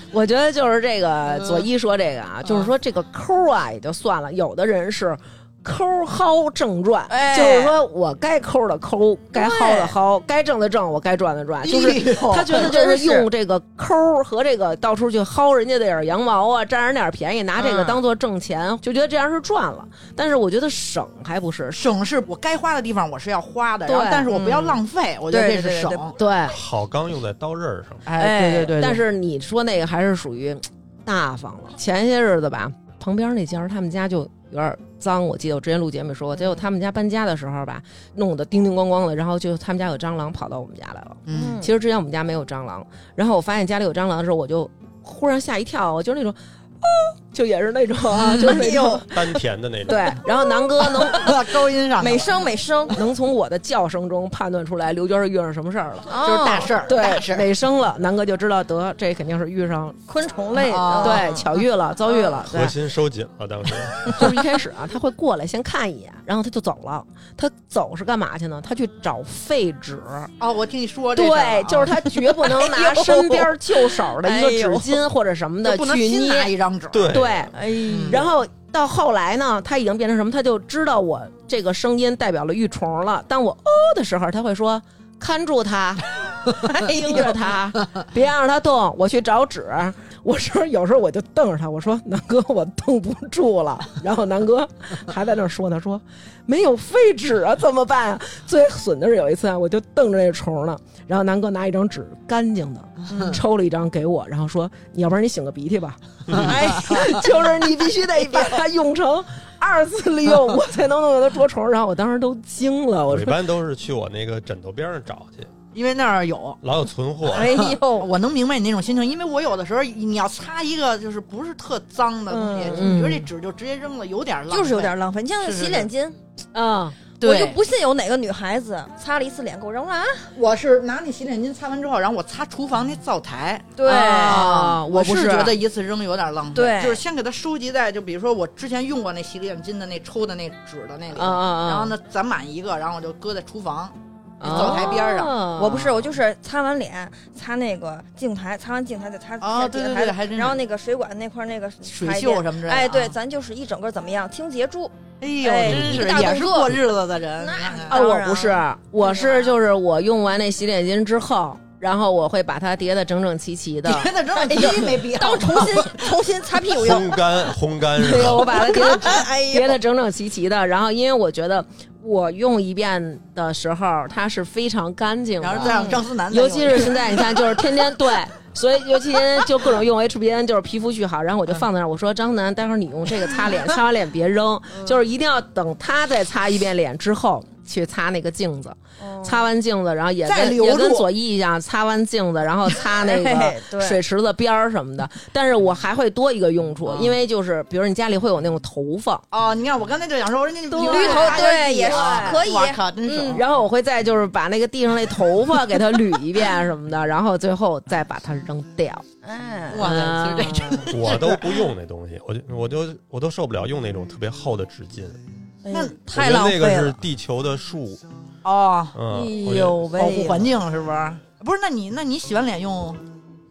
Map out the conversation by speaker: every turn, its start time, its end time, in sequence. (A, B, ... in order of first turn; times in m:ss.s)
0:00.1-0:21.8 A
0:07.1-0:07.8 B
0:09.3-0:10.0 B
0:11.6-0:12.7 C
0:12.5-0:13.3 B
0:17.6-0:18.0 B
0:21.8-0:26.2 C
0:23.9-0:24.3 A
0:24.3-0:24.8 B
0:25.3-0:26.1 B
0:26.2-0:26.6 A
0:26.5-0:28.0 D
0:28.1-0:29.0 C
0:28.2-0:28.8 B
0:28.3-0:49.2 A
0:41.2-0:41.6 C
0:41.3-0:41.7 B
0:48.2-0:48.6 C
0:48.4-0:49.0 B
0:49.1-0:50.2 D
0:49.9-0:51.3 A
0:51.0-0:52.4 C
0:52.0-0:53.0 B
0:52.9-0:56.2 A
0:56.1-0:56.7 B
0:56.2-0:57.5 C
0:56.7-1:00.0 A
1:00.1-1:01.6 B
1:00.5-1:01.3 C
1:01.0-1:02.8 A
1:02.4-1:04.3 D
1:04.1-1:10.3 A
1:10.4-1:13.4 C
1:11.1-1:16.5 A
1:14.2-1:15.0 B
1:15.6-1:17.2 C
1:16.9-1:17.5 D
1:17.1-1:53.4 A
1:17.6-1:18.3 B
1:17.9-1:18.2 C
1:43.1-1:43.4 B
1:46.3-1:46.6 D
1:46.4-1:47.1 C
1:46.6-1:47.2 B
1:53.1-1:55.5 D
1:55.7-1:56.6 C
1:56.6-1:57.6 D
1:57.3-1:58.1 B
1:57.3-2:05.9 C
2:02.3-2:03.0 B
2:02.7-2:03.3 A
2:04.5-2:06.2 B
2:06.5-2:07.0 A
2:07.2-2:07.6 C
2:07.2-2:10.3 B
2:10.4-2:26.2 C
2:13.8-2:14.5 B
2:13.9-2:15.6 A
2:16.5-2:17.0 B
2:21.1-2:22.0 A
2:24.4-2:26.0 A
2:24.4-2:36.8 B
2:29.4-2:30.6 C
2:31.9-2:33.2 C
2:35.2-2:38.0 C
2:35.6-2:36.1 D
2:37.4-2:39.6 B
2:37.9-2:44.1 A
2:43.9-2:46.2 C
2:44.4-2:47.5 B
2:46.7-2:48.7 D
2:48.0-3:19.2 A
2:48.1-2:49.8 B
2:55.4-2:57.4 C
2:55.6-2:56.0 B
3:09.0-3:09.5 B
3:10.2-3:11.1 C
3:12.9-3:14.0 B
3:16.8-3:17.2 C
3:19.3-3:23.4 C
3:20.7-3:22.4 A
3:20.8-3:23.4 B
3:23.3-3:29.1 A
3:29.2-3:29.9 B
3:29.7-3:31.5 C
3:29.7-3:30.9 A
3:30.9-3:35.2 D
3:35.6-3:37.0 B
3:35.7-3:36.0 C
3:36.1-3:38.0 D
3:38.4-3:39.0 C
3:38.9-3:39.8 D
3:39.1-3:40.5 B
3:39.9-3:43.0 C